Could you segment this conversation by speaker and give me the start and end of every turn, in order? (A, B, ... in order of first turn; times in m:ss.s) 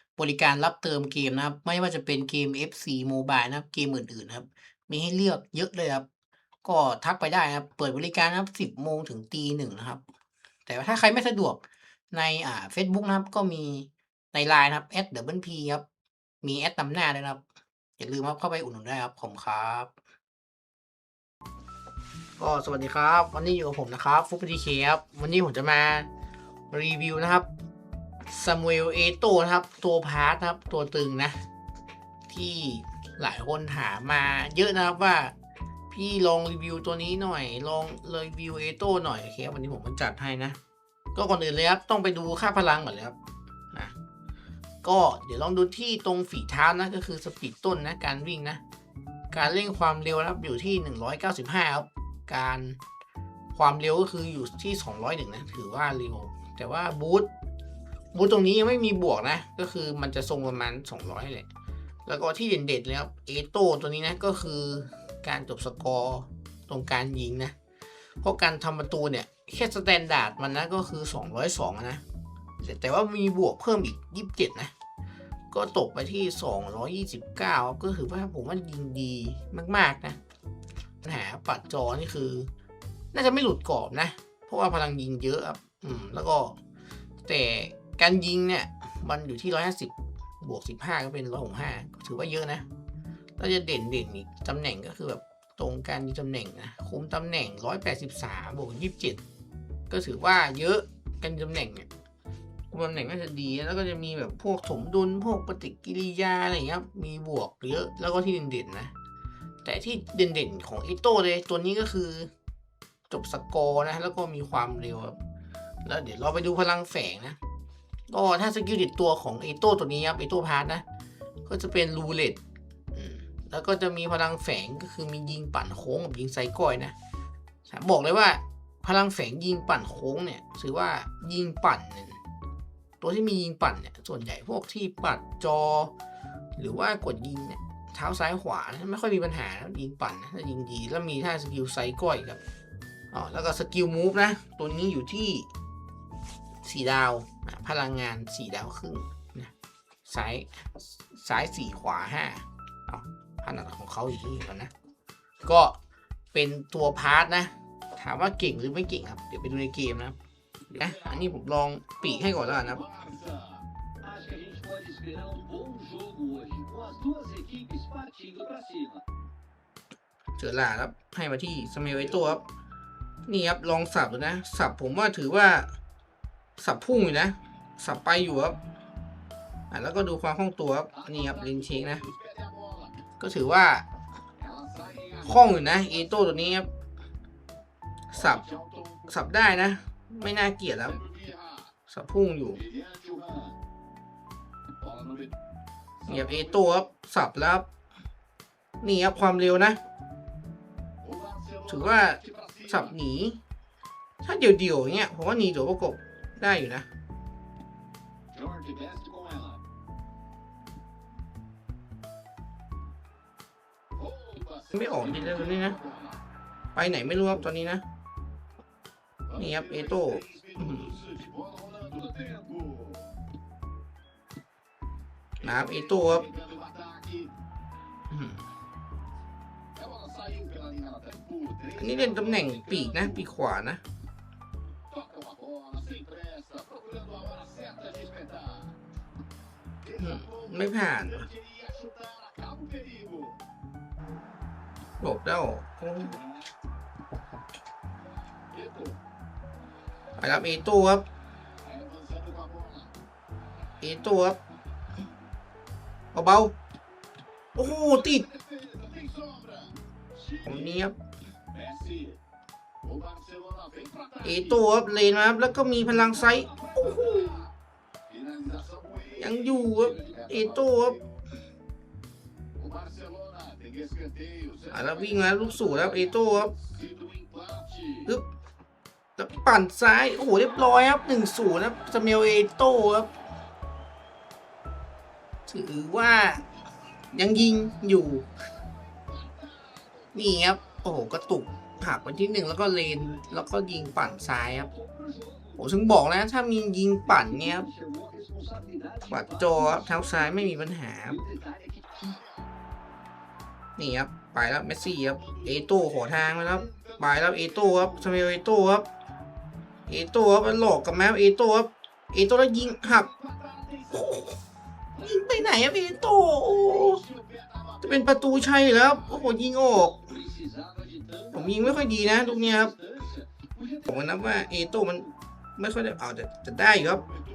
0:00.2-0:06.1 A
0:06.6-0:10.0 A
0:10.7-0:11.6 A
0:12.1-0:15.8 A
0:16.4-0:17.4 A
0:18.0-0:19.9 A
0:22.4-0:26.1 A
0:26.7-0:27.5 A
0:28.3-0:31.4 A
0:32.3-0:35.3 A
0:35.9-0:40.6 A
0:41.2-0:43.2 A
0:44.8-0:48.6 A
0:49.3-0:52.8 A
0:53.5-0:57.3 A
0:58.1-1:01.5 A
1:02.1-1:07.5 A
1:08.2-1:12.0 A
1:12.6-1:14.7 A
1:15.5-1:20.2 A
1:21.0-1:22.5 A
1:23.1-1:26.6 A
1:27.2-1:32.7 A
1:33.4-1:39.2 A
1:39.9-1:41.9 A
1:42.7-1:48.9 A
1:49.6-1:52.3 A
1:53.1-1:55.2 A
1:55.8-1:57.4 A
1:58.1-2:00.8 A
2:01.5-2:02.4 A
2:02.9-2:07.0 A
2:07.7-2:12.2 A
2:13.0-2:15.9 A
2:16.6-2:22.4 A
2:23.1-2:25.5 A
2:26.6-2:29.5 A
2:30.1-2:34.7 A
2:35.4-2:35.8 A
2:36.3-2:40.2 A
2:40.7-2:43.0 A
2:44.1-2:49.0 B
2:50.4-2:52.4 A
2:53.3-2:55.7 A
2:56.6-2:58.6 A
2:59.7-3:02.1 A
3:03.2-3:03.8 A
3:05.2-3:06.7 A
3:08.1-3:08.5 A
3:09.1-3:11.1 A
3:11.9-3:12.7 A
3:13.0-3:13.4 B
3:16.1-3:17.7 A
3:18.8-3:19.8 A
3:21.7-3:23.4 A
3:24.2-3:26.9 A
3:28.4-3:29.6 B
3:34.7-3:35.8 A
3:36.8-3:37.8 A
3:39.4-3:41.1 A
3:41.3-3:42.9 B
3:45.4-3:46.4 A
3:46.5-3:47.2 B
3:48.1-3:48.4 A
3:49.9-3:51.5 B
3:51.7-3:53.8 A
3:55.2-3:58.6 B
4:00.0-4:01.3 A
4:01.8-4:03.3 B
4:05.0-4:06.2 A
4:10.2-4:11.0 A
4:11.8-4:12.8 B
4:13.8-4:14.4 A
4:16.1-4:16.5 A
4:17.6-4:18.3 A
4:18.6-4:19.7 B
4:20.4-4:21.0 A
4:21.7-4:22.1 B
4:22.9-4:24.0 B
4:24.2-4:27.5 A
4:28.2-4:29.0 B
4:29.1-4:31.0 A
4:32.6-4:34.5 B
4:34.7-4:36.6 A
4:37.1-4:37.7 B
4:39.2-4:43.1 A
4:45.5-4:46.5 A
4:47.1-4:48.3 A
4:50.1-4:54.7 A
4:55.0-4:55.3 B
4:55.6-4:57.7 A
4:57.7-4:59.0 B
4:59.1-5:01.3 A
5:01.4-5:02.2 B
5:03.8-5:08.9 A
5:09.9-5:13.1 A
5:13.9-5:14.4 A
5:15.0-5:17.1 A
5:17.8-5:20.2 A
5:20.4-5:21.1 B
5:21.3-5:22.8 A
5:23.8-5:27.1 A